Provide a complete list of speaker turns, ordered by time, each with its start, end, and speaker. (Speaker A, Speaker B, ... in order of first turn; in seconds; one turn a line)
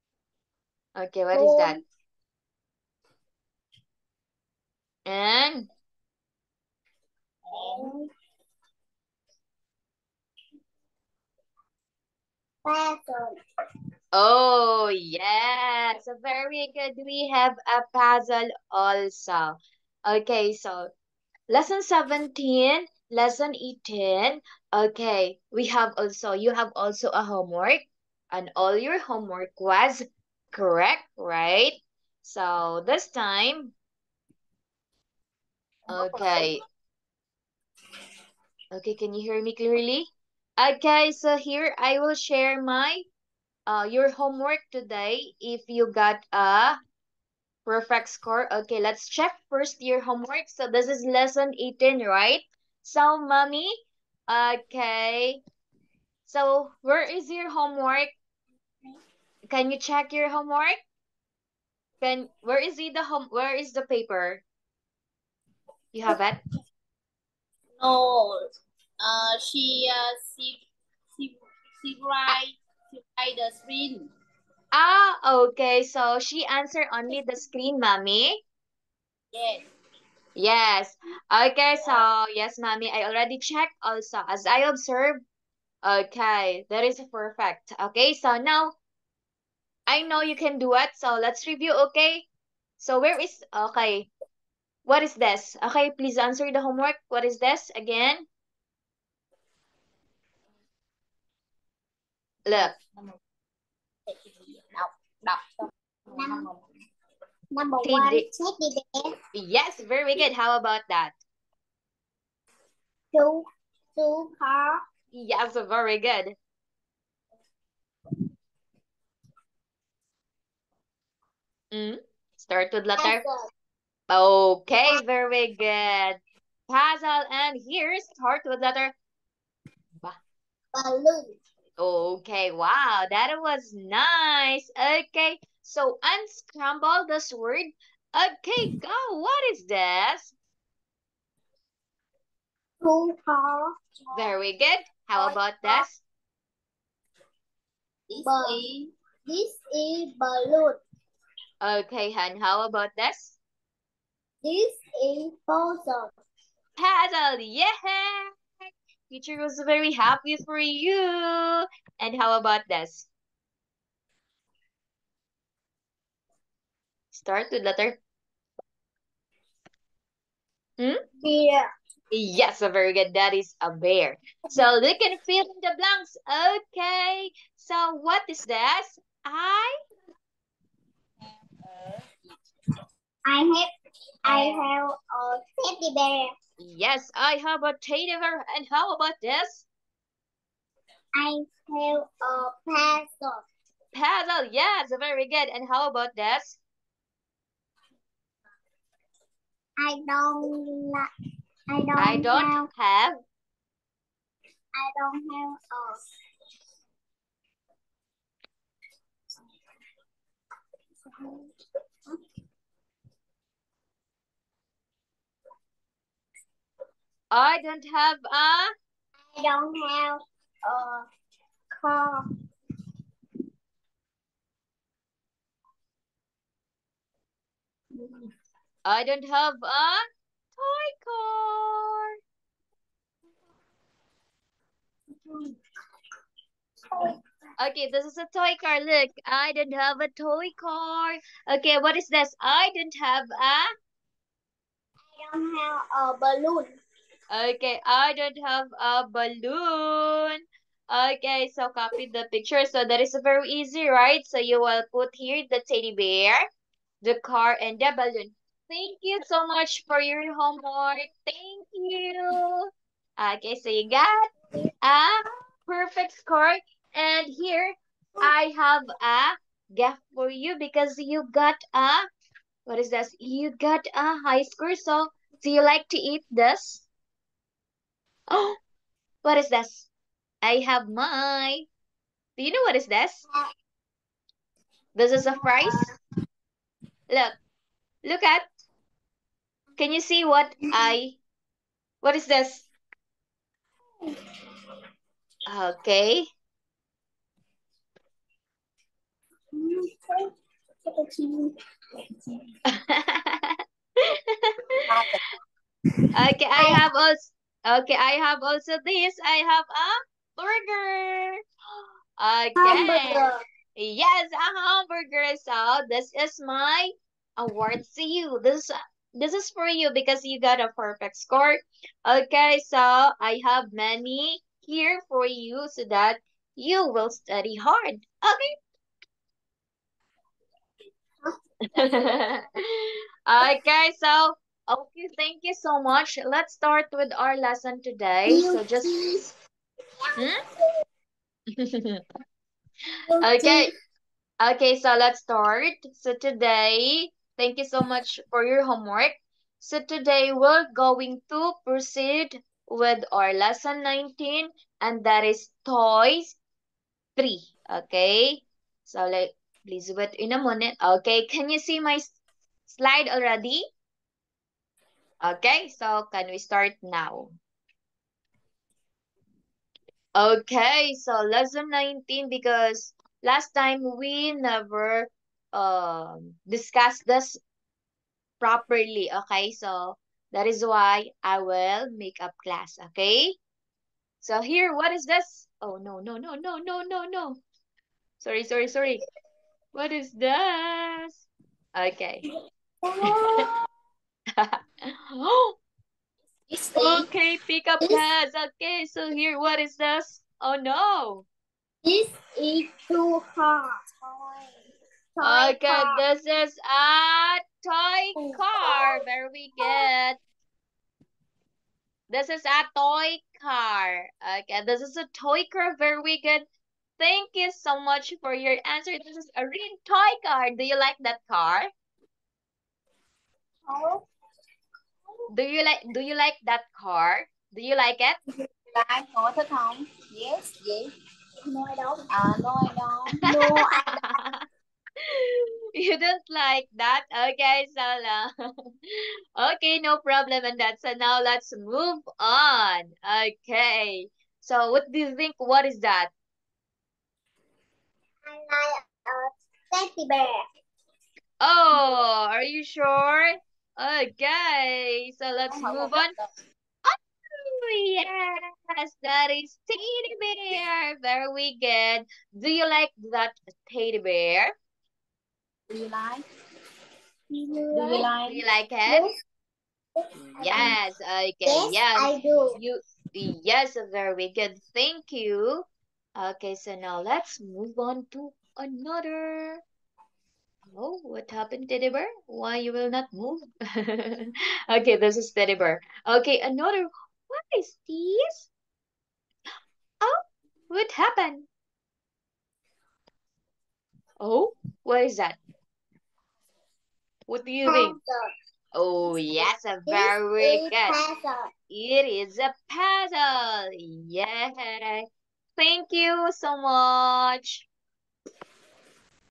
Speaker A: 0.9-1.8
Speaker B: 1.3-1.8
Speaker A: 5.0-5.7
Speaker C: 7.4-7.9
Speaker B: 7.5-8.1
Speaker B: 12.6-13.4
Speaker A: 14.1-20.9
Speaker A: 21.5-33.7
Speaker C: 35.9-36.5
Speaker A: 35.9-36.6
Speaker A: 38.7-43.0
Speaker A: 43.7-46.8
Speaker A: 47.6-55.4
Speaker A: 56.3-58.1
Speaker A: 59.5-60.7
Speaker A: 62.0-64.4
Speaker A: 65.9-66.4
Speaker C: 67.8-68.4
Speaker C: 69.0-70.6
Speaker C: 71.1-74.1
Speaker A: 74.7-78.4
Speaker C: 79.3-79.7
Speaker A: 80.3-85.2
Speaker A: 85.8-88.7
Speaker A: 89.9-92.2
Speaker A: 92.8-94.1
Speaker A: 94.8-98.2
Speaker A: 102.5-102.7
Speaker C: 102.5-103.2
Speaker C: 104.1-106.6
Speaker B: 106.1-106.5
Speaker B: 107.5-109.1
Speaker A: 107.8-108.3
Speaker A: 109.3-111.2
Speaker B: 113.1-114.8
Speaker A: 115.1-116.3
Speaker A: 121.7-123.2
Speaker B: 123.0-123.5
Speaker A: 124.1-128.9
Speaker B: 130.7-131.4
Speaker A: 131.8-140.3
Speaker B: 142.8-144.3
Speaker A: 144.1-146.0
Speaker B: 145.2-145.8
Speaker C: 148.1-148.9
Speaker B: 148.2-148.6
Speaker B: 149.2-150.8
Speaker A: 151.6-153.4
Speaker B: 154.4-156.1
Speaker A: 156.8-158.3
Speaker A: 159.1-163.1
Speaker A: 167.1-168.0
Speaker B: 171.2-171.7
Speaker A: 172.1-179.7
Speaker C: 181.2-182.3
Speaker B: 183.3-183.7
Speaker B: 184.3-186.3
Speaker A: 184.3-184.7
Speaker A: 186.6-189.7
Speaker B: 191.2-193.4
Speaker A: 193.9-196.6
Speaker B: 199.8-201.1
Speaker B: 201.7-202.7
Speaker A: 202.0-203.2
Speaker B: 204.8-206.0
Speaker B: 211.1-211.5
Speaker A: 217.3-218.7
Speaker B: 219.3-221.1
Speaker B: 221.7-222.2
Speaker A: 228.8-230.0
Speaker A: 230.6-232.2
Speaker B: 235.2-235.5
Speaker B: 236.9-237.2
Speaker A: 237.6-243.7
Speaker B: 245.1-246.8
Speaker A: 247.3-256.4
Speaker A: 257.0-264.3
Speaker A: 264.8-272.1
Speaker A: 272.7-276.9
Speaker A: 278.3-278.6
Speaker A: 279.2-279.9
Speaker A: 280.4-281.6
Speaker A: 282.4-283.2
Speaker A: 284.9-285.9
Speaker B: 285.2-285.9
Speaker A: 287.1-287.3
Speaker A: 288.0-288.4
Speaker A: 289.8-291.2
Speaker A: 292.0-292.6
Speaker A: 295.5-296.2
Speaker B: 299.5-300.2
Speaker C: 300.9-301.4
Speaker C: 302.2-302.5
Speaker A: 302.7-304.8
Speaker C: 304.9-305.2
Speaker A: 306.1-311.4
Speaker A: 312.2-313.2
Speaker B: 312.6-313.4
Speaker A: 313.8-328.5
Speaker B: 331.2-332.2
Speaker A: 331.7-339.1
Speaker B: 338.3-339.3
Speaker B: 340.0-340.7
Speaker A: 341.5-342.0
Speaker B: 343.1-343.7
Speaker A: 343.2-343.7
Speaker A: 344.4-356.4
Speaker A: 357.2-362.1
Speaker A: 362.7-363.6
Speaker A: 365.2-367.3
Speaker A: 370.1-377.4
Speaker A: 378.4-383.4
Speaker A: 384.2-387.4
Speaker A: 388.2-389.0
Speaker A: 389.7-392.2
Speaker B: 392.8-393.7
Speaker A: 393.0-393.5
Speaker A: 394.3-395.5
Speaker C: 396.5-397.1
Speaker A: 396.8-401.2
Speaker B: 401.8-404.4
Speaker B: 405.2-406.0
Speaker A: 405.2-410.2
Speaker B: 408.1-409.0
Speaker B: 409.6-409.8
Speaker A: 412.1-416.4
Speaker A: 417.0-421.7
Speaker B: 423.7-424.0
Speaker A: 425.3-428.2
Speaker C: 428.7-430.9
Speaker B: 431.4-432.1
Speaker C: 432.1-433.3
Speaker B: 433.2-434.1
Speaker A: 433.2-434.4
Speaker A: 435.0-446.1
Speaker B: 448.2-450.4
Speaker A: 451.4-456.1
Speaker C: 455.5-456.3
Speaker A: 456.8-464.5
Speaker C: 465.7-466.2
Speaker B: 467.3-468.1
Speaker C: 467.7-468.4
Speaker A: 468.3-469.0
Speaker B: 468.9-469.1
Speaker B: 470.0-470.7
Speaker A: 470.1-479.6
Speaker B: 471.4-472.6
Speaker A: 480.7-488.5
Speaker A: 490.0-491.5
Speaker A: 494.2-495.4
Speaker A: 497.3-497.9
Speaker B: 497.6-498.3
Speaker A: 498.7-501.0
Speaker B: 499.9-501.5
Speaker A: 501.7-505.0
Speaker A: 505.6-507.6